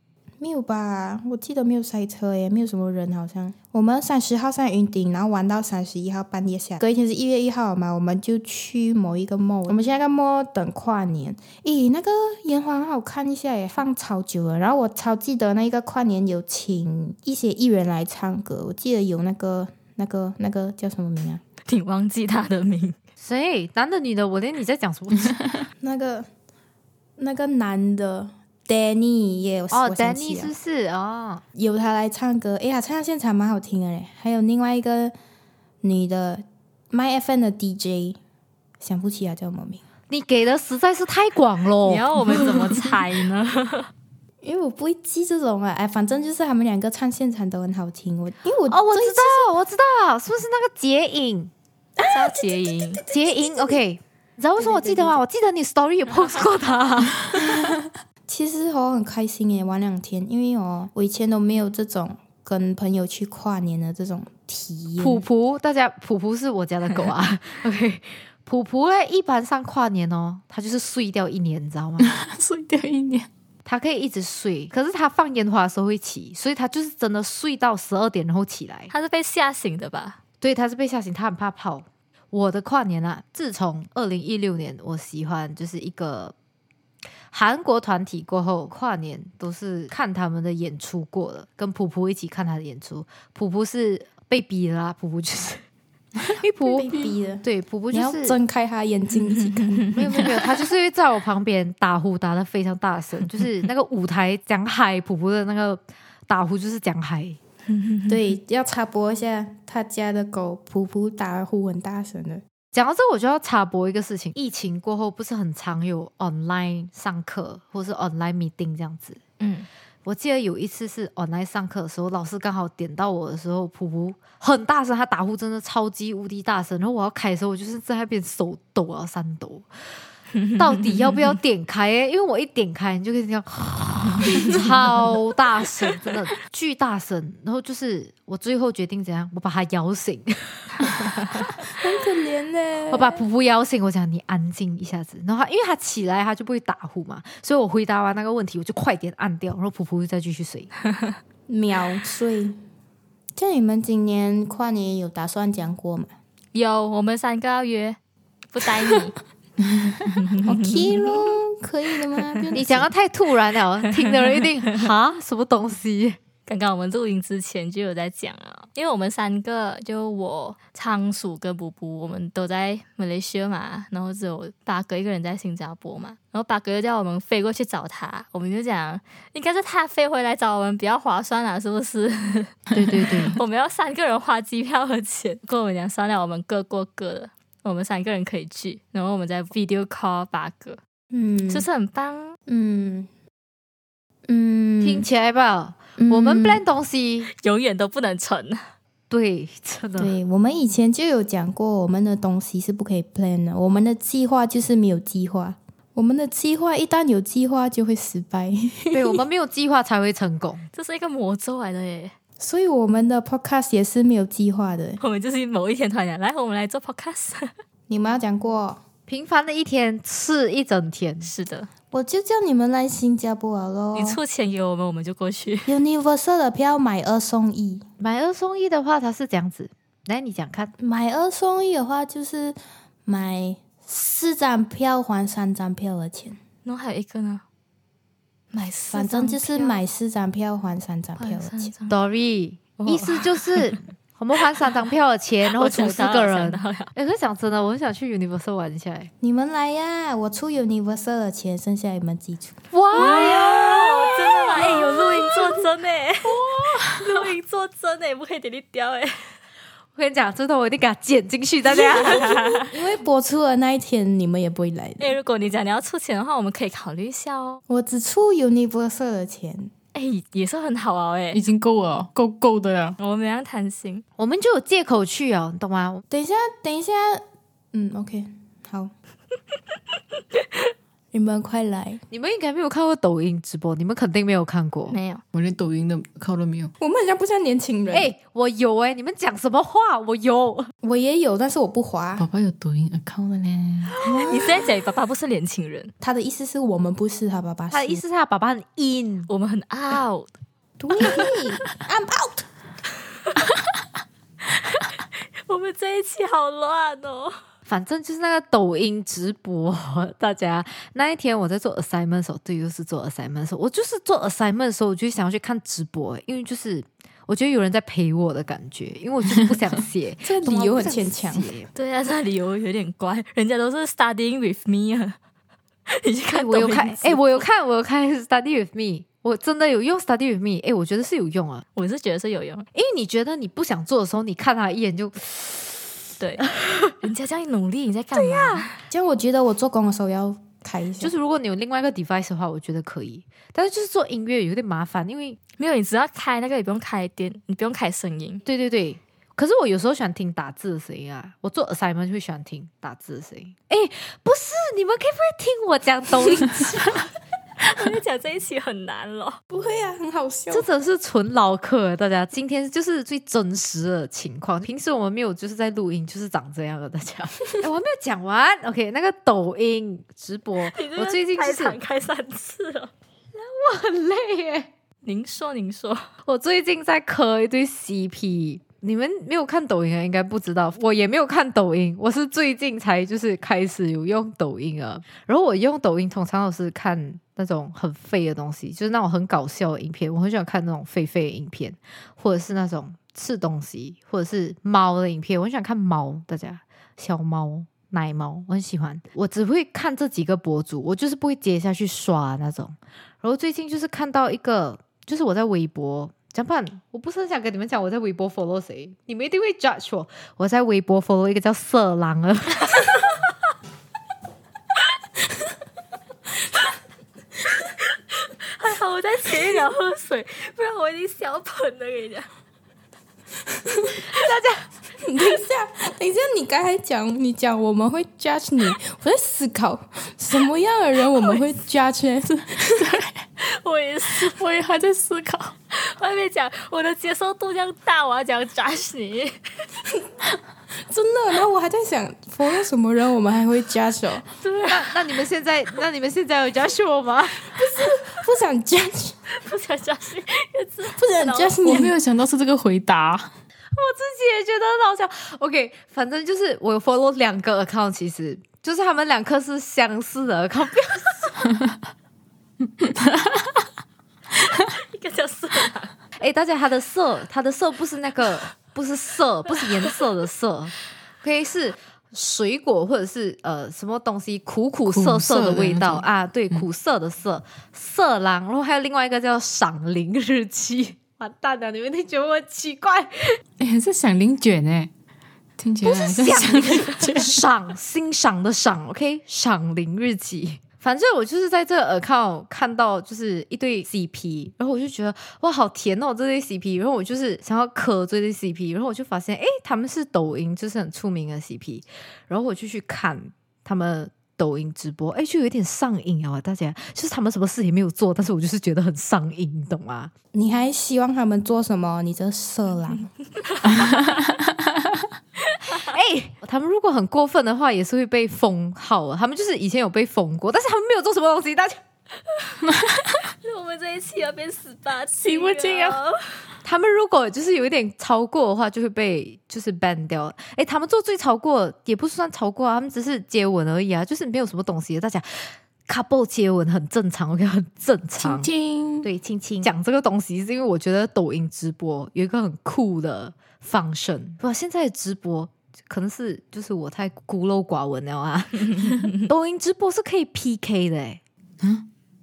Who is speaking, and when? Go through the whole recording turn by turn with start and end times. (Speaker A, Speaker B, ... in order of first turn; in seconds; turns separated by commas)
Speaker A: 0.4-21.4, Speaker B: 21.7-23.0, Speaker C: 23.2-25.4, Speaker A: 25.8-26.3, Speaker A: 27.2-30.5, Speaker C: 29.7-31.4, Speaker A: 31.6-35.1, Speaker A: 35.8-38.2, Speaker A: 38.8-39.8, Speaker C: 40.1-42.7, Speaker B: 41.8-43.9, Speaker A: 44.4-49.5, Speaker C: 48.7-51.5, Speaker A: 52.0-53.8, Speaker B: 52.1-53.0, Speaker C: 53.1-57.6, Speaker A: 54.6-55.2, Speaker A: 57.4-65.3, Speaker C: 65.0-72.1, Speaker D: 72.0-73.3, Speaker C: 73.7-78.9, Speaker B: 78.9-80.2, Speaker C: 80.4-86.3, Speaker C: 87.3-95.6, Speaker C: 96.2-98.4, Speaker A: 96.6-100.5, Speaker C: 99.9-107.4, Speaker B: 107.7-108.2, Speaker A: 108.1-112.4, Speaker C: 112.7-119.2, Speaker B: 119.4-119.7, Speaker C: 120.0-129.7, Speaker B: 130.4-130.9, Speaker C: 130.6-141.1, Speaker B: 134.3-134.7, Speaker A: 141.6-143.2, Speaker C: 142.9-150.7, Speaker A: 151.5-152.6, Speaker A: 153.4-156.1, Speaker B: 156.5-158.0, Speaker B: 158.5-159.2, Speaker B: 160.2-160.9, Speaker A: 160.4-162.9, Speaker C: 162.5-166.2, Speaker B: 166.5-190.8, Speaker C: 182.7-183.4, Speaker A: 191.1-191.7, Speaker B: 191.5-192.4, Speaker A: 192.5-193.1, Speaker A: 194.3-195.1, Speaker C: 194.8-197.3, Speaker A: 196.0-196.6, Speaker B: 197.4-198.6, Speaker C: 199.1-200.2, Speaker A: 200.0-209.2, Speaker C: 208.9-210.7, Speaker B: 210.7-212.2, Speaker A: 212.4-215.0, Speaker B: 215.0-217.5, Speaker A: 217.9-218.8, Speaker C: 219.1-221.3, Speaker B: 221.2-221.7, Speaker A: 221.9-224.2, Speaker B: 223.9-225.7, Speaker A: 225.7-227.8, Speaker C: 228.0-230.7, Speaker A: 230.8-236.4, Speaker B: 236.7-237.4, Speaker B: 238.5-239.8, Speaker A: 238.9-241.7, Speaker B: 241.2-242.0, Speaker C: 241.9-249.1, Speaker B: 242.8-243.7, Speaker B: 245.5-246.9, Speaker A: 249.2-252.6, Speaker C: 252.7-255.6, Speaker B: 252.9-259.3, Speaker C: 259.9-262.4, Speaker B: 261.7-262.7, Speaker A: 261.7-265.1, Speaker B: 265.0-267.6, Speaker A: 267.7-269.7, Speaker B: 269.9-271.4, Speaker D: 271.3-273.0, Speaker B: 273.0-274.0, Speaker C: 274.2-276.0, Speaker A: 276.1-278.9, Speaker A: 281.1-282.0, Speaker C: 282.1-285.0, Speaker B: 284.9-285.2, Speaker D: 285.3-286.7, Speaker A: 286.8-288.1, Speaker C: 287.9-290.7, Speaker A: 290.8-292.3, Speaker D: 292.2-294.0, Speaker A: 294.0-294.7, Speaker C: 294.0-294.4, Speaker B: 294.3-295.9, Speaker A: 296.0-298.0, Speaker C: 297.7-299.3, Speaker B: 299.3-300.3, Speaker A: 300.8-302.5, Speaker B: 305.5-307.4, Speaker C: 307.7-321.7, Speaker A: 320.2-321.5, Speaker B: 321.7-325.2, Speaker B: 325.9-327.4, Speaker C: 326.3-331.6, Speaker B: 331.8-332.7, Speaker C: 332.7-335.9, Speaker B: 336.2-338.8, Speaker C: 336.6-336.9, Speaker C: 338.1-338.7, Speaker A: 338.9-341.1, Speaker C: 341.0-345.4, Speaker B: 345.6-348.4, Speaker C: 348.4-357.0, Speaker B: 357.6-359.4, Speaker A: 359.5-360.7, Speaker C: 360.5-371.8, Speaker B: 370.7-372.9, Speaker C: 373.3-374.7, Speaker B: 375.0-376.1, Speaker C: 376.2-412.9, Speaker B: 418.2-422.3, Speaker A: 423.7-424.0, Speaker C: 424.1-424.6, Speaker A: 425.0-433.0, Speaker D: 432.5-433.2, Speaker B: 433.4-434.4, Speaker D: 434.2-435.5, Speaker B: 435.7-439.4, Speaker A: 440.9-444.2, Speaker B: 444.4-445.0, Speaker C: 444.6-447.6, Speaker A: 447.5-449.2, Speaker B: 449.3-451.6, Speaker A: 451.0-451.9, Speaker D: 451.6-453.3, Speaker C: 453.7-461.4, Speaker D: 461.5-461.8, Speaker D: 462.8-463.6, Speaker B: 464.5-465.9, Speaker C: 466.2-483.4, Speaker D: 474.9-476.6, Speaker D: 483.6-484.9, Speaker D: 485.6-487.4, Speaker C: 485.8-510.1, Speaker A: 510.3-513.1, Speaker B: 513.5-514.0, Speaker D: 513.6-515.0, Speaker B: 515.5-515.9, Speaker C: 515.7-521.8, Speaker D: 522.7-523.2, Speaker B: 523.4-526.4, Speaker D: 525.2-526.0, Speaker C: 526.6-538.5, Speaker D: 538.2-539.1, Speaker C: 539.0-551.2, Speaker D: 551.6-551.9